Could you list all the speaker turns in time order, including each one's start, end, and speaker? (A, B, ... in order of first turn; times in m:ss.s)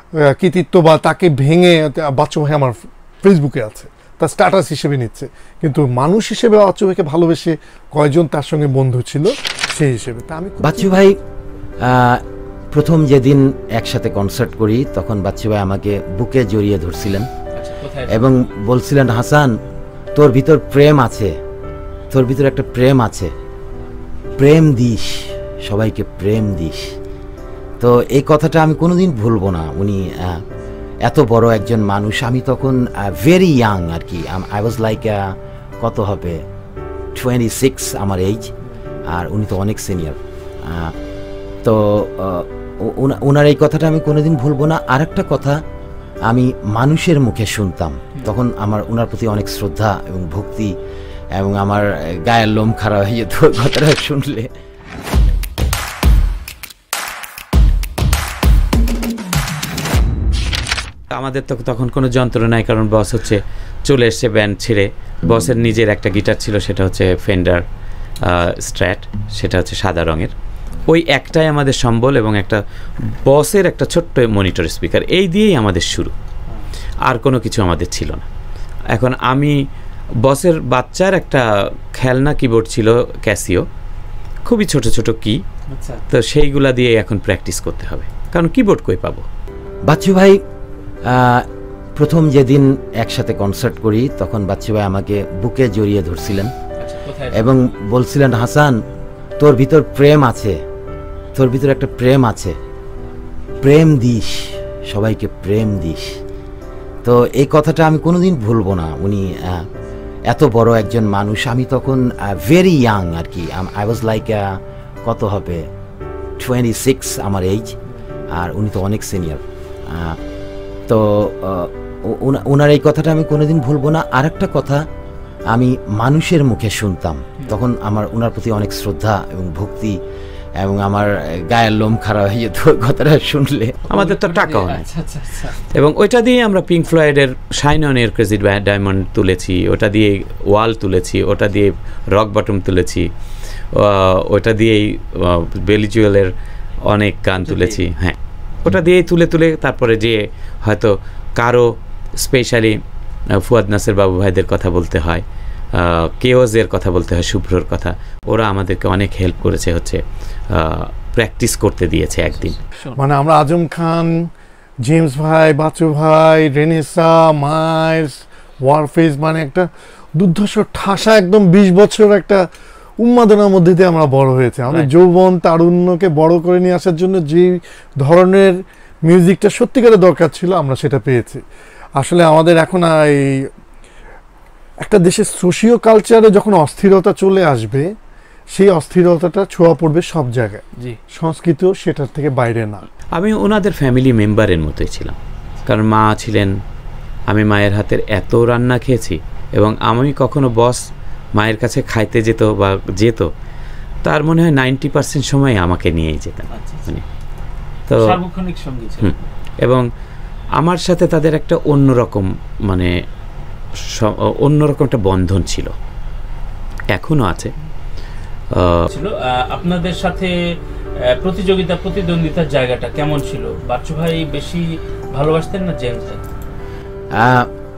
0:00.2-0:11.0 A
0:10.6-0:11.2 B
0:11.8-0:17.3 B
0:17.5-0:18.3 C
0:18.1-0:19.5 B
0:20.1-0:21.3 B
0:22.1-0:23.3 B
0:24.4-0:26.9 B
0:27.8-0:30.4 B
0:31.0-0:36.4 B
0:37.1-0:38.5 B
0:39.1-0:40.9 B
0:41.6-0:45.6 B
0:46.3-0:50.7 B
0:51.3-0:54.5 B
1:01.1-1:07.6 D
1:08.2-1:10.3 D
1:10.9-1:12.6 D
1:13.2-1:16.1 D
1:17.0-1:18.2 D
1:18.9-1:19.6 D
1:20.2-1:21.4 D
1:22.0-1:23.6 D
1:24.5-1:25.4 D
1:25.7-1:26.0 C
1:26.1-1:29.2 D
1:29.9-1:30.4 B
1:31.0-1:36.5 B
1:36.8-1:37.5 C
1:37.3-1:38.8 B
1:39.4-1:40.6 B
1:41.3-1:42.6 B
1:43.6-1:46.2 B
1:47.0-1:49.7 B
1:50.3-1:55.6 B
1:56.4-1:57.7 B
1:58.3-2:00.2 B
2:00.9-2:04.8 B
2:05.5-2:10.0 B
2:10.6-2:13.8 B
2:13.9-2:15.6 C
2:13.9-2:14.9 D
2:15.7-2:23.1 D
2:23.7-2:26.3 D
2:26.9-2:31.7 D
2:27.4-2:27.8 C
2:32.2-2:32.8 D
2:33.4-2:35.2 D
2:35.7-2:40.0 D
2:40.5-2:42.6 D
2:42.3-2:43.0 C
2:42.9-2:44.3 A
2:44.8-2:52.4 A
2:53.0-3:01.4 A
3:02.0-3:03.5 A
3:04.8-3:07.9 A
3:08.5-3:12.8 A
3:13.2-3:16.5 D
3:17.3-3:20.8 D
3:21.4-3:23.3 D
3:24.0-3:27.0 D
3:26.5-3:26.9 C
3:27.9-3:28.2 D
3:27.9-3:29.2 C
3:29.0-3:29.8 D
3:30.6-3:32.9 D
3:33.9-3:35.7 D
3:36.9-3:37.5 D
3:38.5-3:38.8 D
3:38.9-3:40.3 C
3:41.0-3:46.2 C
3:47.1-3:47.5 B